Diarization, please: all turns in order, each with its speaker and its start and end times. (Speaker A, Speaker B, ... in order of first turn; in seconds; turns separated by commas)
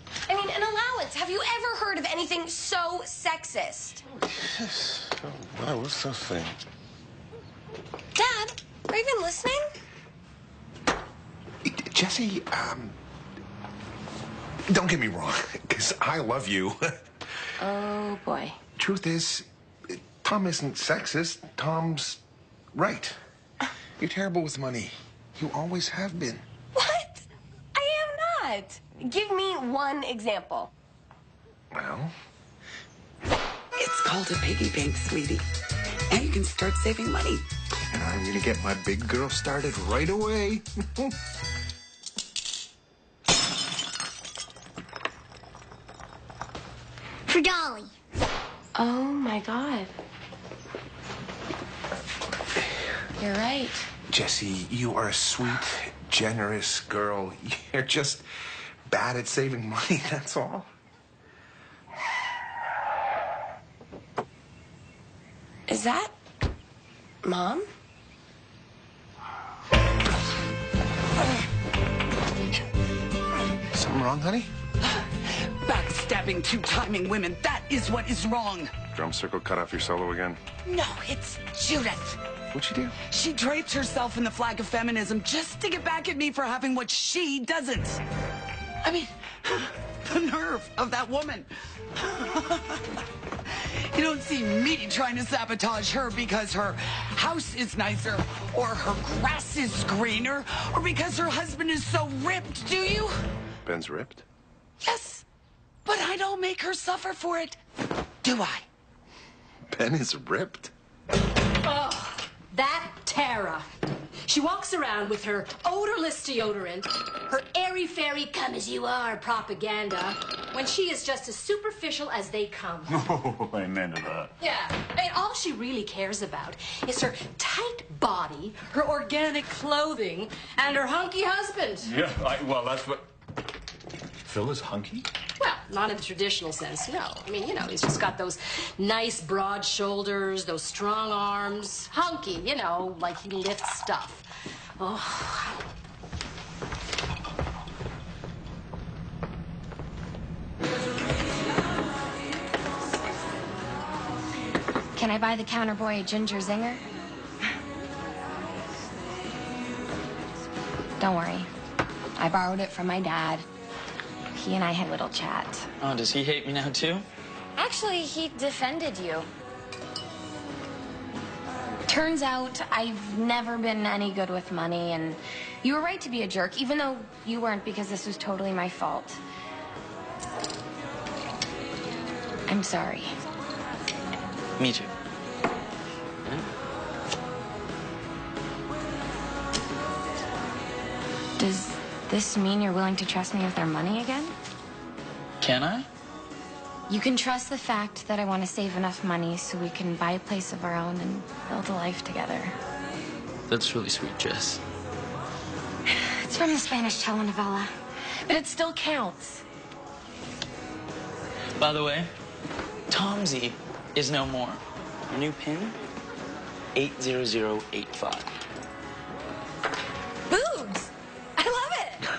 Speaker A: 0.3-4.0, Speaker B: 4.4-6.5, Speaker A: 8.1-9.7, Speaker B: 11.7-12.9, Speaker B: 14.7-16.8, Speaker A: 17.6-18.6, Speaker B: 18.8-22.2, Speaker B: 22.7-23.1, Speaker B: 24.0-26.4, Speaker A: 26.7-30.7, Speaker B: 31.7-32.1, Speaker C: 33.8-35.4, Speaker C: 36.1-37.4, Speaker B: 37.9-41.0, Speaker A: 48.7-49.9, Speaker A: 53.2-53.9, Speaker B: 54.1-58.2, Speaker B: 58.9-60.7, Speaker A: 65.7-66.1, Speaker A: 67.2-67.7, Speaker B: 73.7-74.5, Speaker C: 74.8-78.8, Speaker B: 78.9-80.4, Speaker C: 80.6-82.2, Speaker B: 82.5-82.9, Speaker C: 83.0-88.0, Speaker C: 88.8-103.2, Speaker B: 103.7-104.2, Speaker C: 104.8-105.2, Speaker C: 105.8-107.5, Speaker C: 108.2-108.6, Speaker B: 109.7-110.7, Speaker D: 111.6-113.7, Speaker D: 114.2-123.1, Speaker E: 122.9-124.3, Speaker D: 124.4-131.9, Speaker E: 131.8-133.0, Speaker E: 134.2-135.0, Speaker D: 135.4-144.2, Speaker D: 144.8-145.7, Speaker F: 154.9-156.8, Speaker F: 161.0-161.5, Speaker F: 162.2-163.4, Speaker F: 164.3-165.7, Speaker G: 165.8-167.0, Speaker F: 167.6-169.3, Speaker F: 171.9-179.2, Speaker F: 182.5-183.1, Speaker G: 184.6-184.9, Speaker F: 191.4-194.3, Speaker G: 195.4-195.9, Speaker F: 196.9-202.6, Speaker G: 203.5-204.6, Speaker F: 205.9-207.7, Speaker F: 208.2-209.4, Speaker G: 211.6-212.1, Speaker G: 212.9-215.8, Speaker G: 216.7-218.3, Speaker A: 220.3-222.0